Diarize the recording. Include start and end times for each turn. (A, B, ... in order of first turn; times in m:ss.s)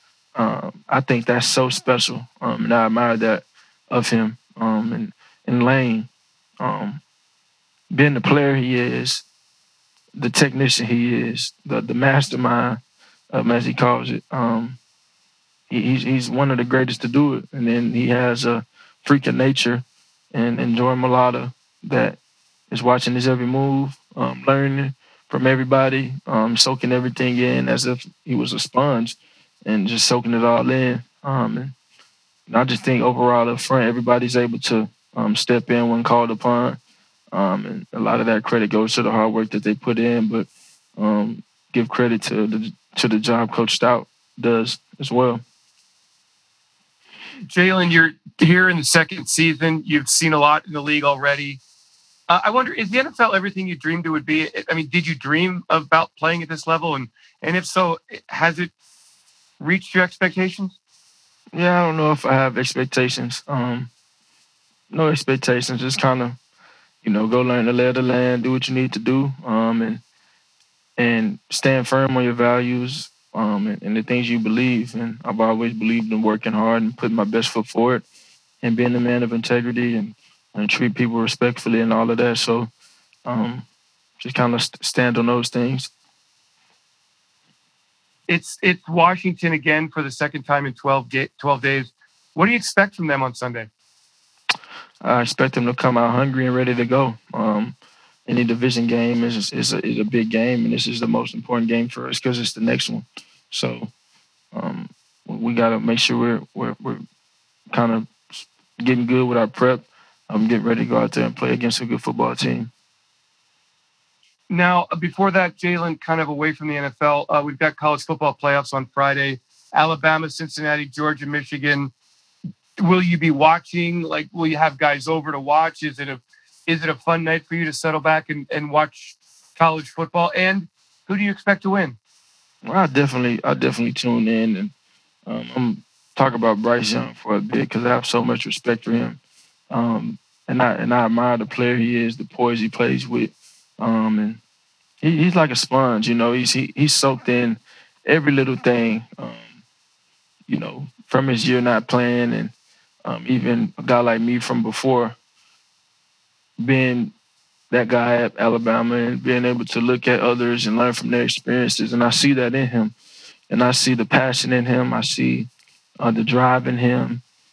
0:00.4-0:07.0 A
0:07.9-0:09.2 A
0:10.2-0:14.8 A
0:15.7-0:22.2 A
0:22.7-0:31.8 A
0:32.5-0:36.8 A
0:37.3-0:45.4 A
0:47.5-0:51.6 B
0:52.3-0:58.7 B
0:59.6-1:00.8 B
1:01.5-1:03.9 A
1:04.9-1:06.4 A
1:07.0-1:10.0 A
1:11.0-1:18.0 A
1:18.6-1:22.7 A
1:23.2-1:23.7 A
1:24.2-1:25.9 A
1:28.3-1:33.7 B
1:35.0-1:43.9 A
1:44.5-1:47.0 A
1:47.7-1:52.7 A
1:54.5-2:01.9 B
2:02.8-2:12.0 B
2:12.6-2:14.7 A
2:15.3-2:19.2 A
2:19.7-2:24.4 A
2:25.0-2:29.5 A
2:30.5-2:32.5 A
2:33.0-2:35.2 A
2:36.6-2:37.1 A
2:37.7-2:42.9 A
2:43.5-2:45.5 A
2:46.0-2:47.2 A